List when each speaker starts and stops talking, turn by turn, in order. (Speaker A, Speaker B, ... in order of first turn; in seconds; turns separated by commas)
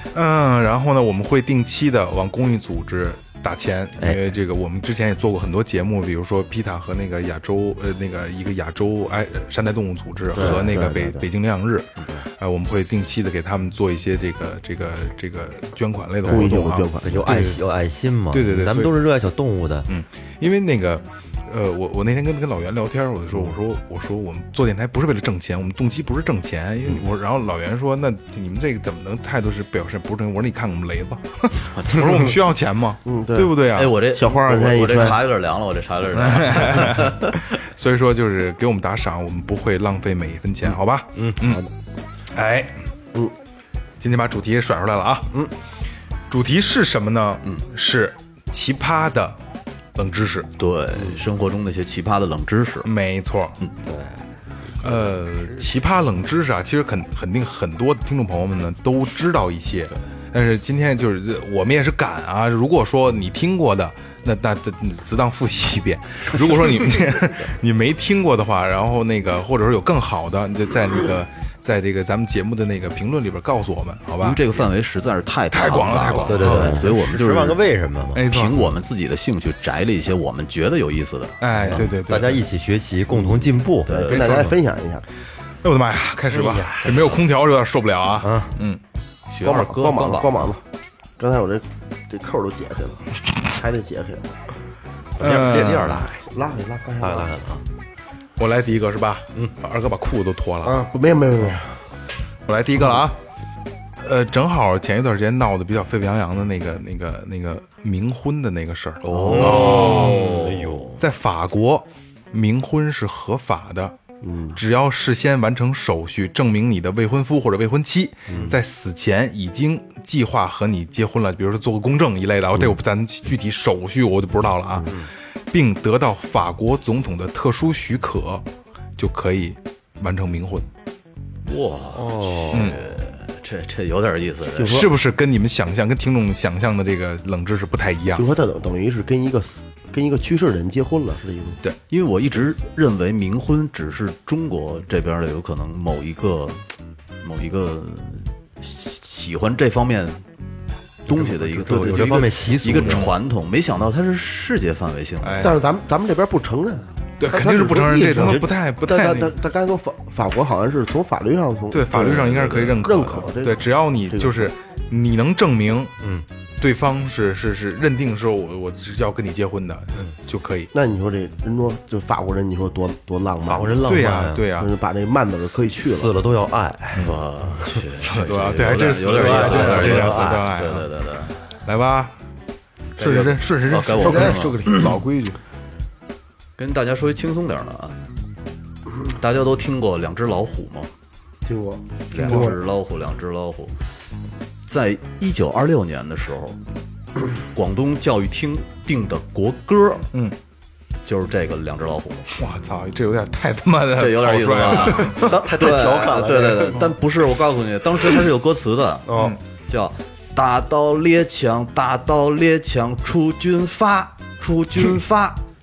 Speaker A: 0.1-17.6, Speaker B: 10.3-11.3, Speaker C: 10.4-10.7, Speaker B: 16.2-17.4, Speaker C: 16.3-19.9, Speaker A: 18.3-19.0, Speaker A: 19.9-34.0, Speaker B: 33.0-35.2, Speaker D: 33.7-37.5, Speaker A: 36.2-41.6, Speaker C: 41.1-41.7, Speaker A: 42.3-42.8, Speaker A: 44.0-45.3, Speaker A: 46.3-49.4, Speaker A: 50.0-50.5, Speaker D: 50.6-52.9, Speaker A: 52.8-53.6, Speaker C: 53.8-54.2, Speaker A: 54.8-74.6, Speaker D: 74.2-77.6, Speaker A: 75.5-76.8, Speaker C: 76.3-78.3, Speaker B: 76.4-76.8, Speaker A: 78.2-78.7, Speaker D: 78.2-81.9, Speaker A: 81.4-82.4, Speaker C: 81.6-84.5, Speaker D: 83.8-84.4, Speaker B: 83.9-85.0, Speaker A: 84.1-84.5, Speaker A: 85.6-88.8, Speaker C: 86.3-87.2, Speaker C: 88.2-88.6, Speaker D: 89.3-90.5, Speaker B: 89.4-90.6, Speaker B: 91.2-94.4, Speaker C: 95.2-96.3, Speaker A: 95.2-96.1, Speaker B: 96.2-97.4, Speaker C: 97.0-97.6, Speaker A: 98.4-100.9, Speaker B: 100.6-101.7, Speaker A: 102.5-103.2, Speaker A: 104.0-110.4, Speaker D: 109.0-111.0, Speaker C: 109.2-110.9, Speaker A: 111.0-114.0, Speaker B: 114.2-114.6, Speaker A: 114.5-124.9, Speaker B: 118.3-118.6, Speaker A: 125.5-128.4, Speaker A: 129.0-130.7, Speaker D: 131.5-134.8, Speaker C: 131.9-132.8, Speaker B: 134.6-134.9, Speaker A: 134.6-138.3, Speaker B: 138.2-141.6, Speaker D: 141.9-150.2, Speaker D: 151.1-155.6, Speaker C: 151.1-153.1, Speaker A: 155.2-155.6, Speaker B: 155.4-164.5, Speaker A: 157.2-159.3, Speaker C: 158.2-158.5, Speaker A: 161.7-165.9, Speaker C: 166.0-166.3, Speaker A: 166.6-170.7, Speaker B: 170.7-173.9, Speaker C: 173.4-174.5, Speaker A: 173.8-174.7, Speaker B: 174.6-176.1, Speaker C: 175.8-177.1, Speaker D: 177.0-181.4, Speaker A: 177.9-180.9, Speaker C: 179.1-180.6, Speaker A: 181.7-182.1, Speaker A: 183.0-184.5, Speaker D: 183.0-184.9, Speaker B: 184.0-185.4, Speaker D: 186.6-188.0, Speaker D: 189.1-190.9, Speaker B: 191.5-192.6, Speaker D: 192.1-193.8, Speaker A: 192.2-192.6, Speaker D: 194.7-196.6, Speaker D: 197.5-200.1, Speaker D: 201.1-202.3, Speaker A: 202.3-205.4, Speaker D: 204.0-209.1, Speaker C: 204.9-206.9, Speaker C: 209.1-209.4, Speaker A: 209.1-209.4, Speaker D: 209.6-215.4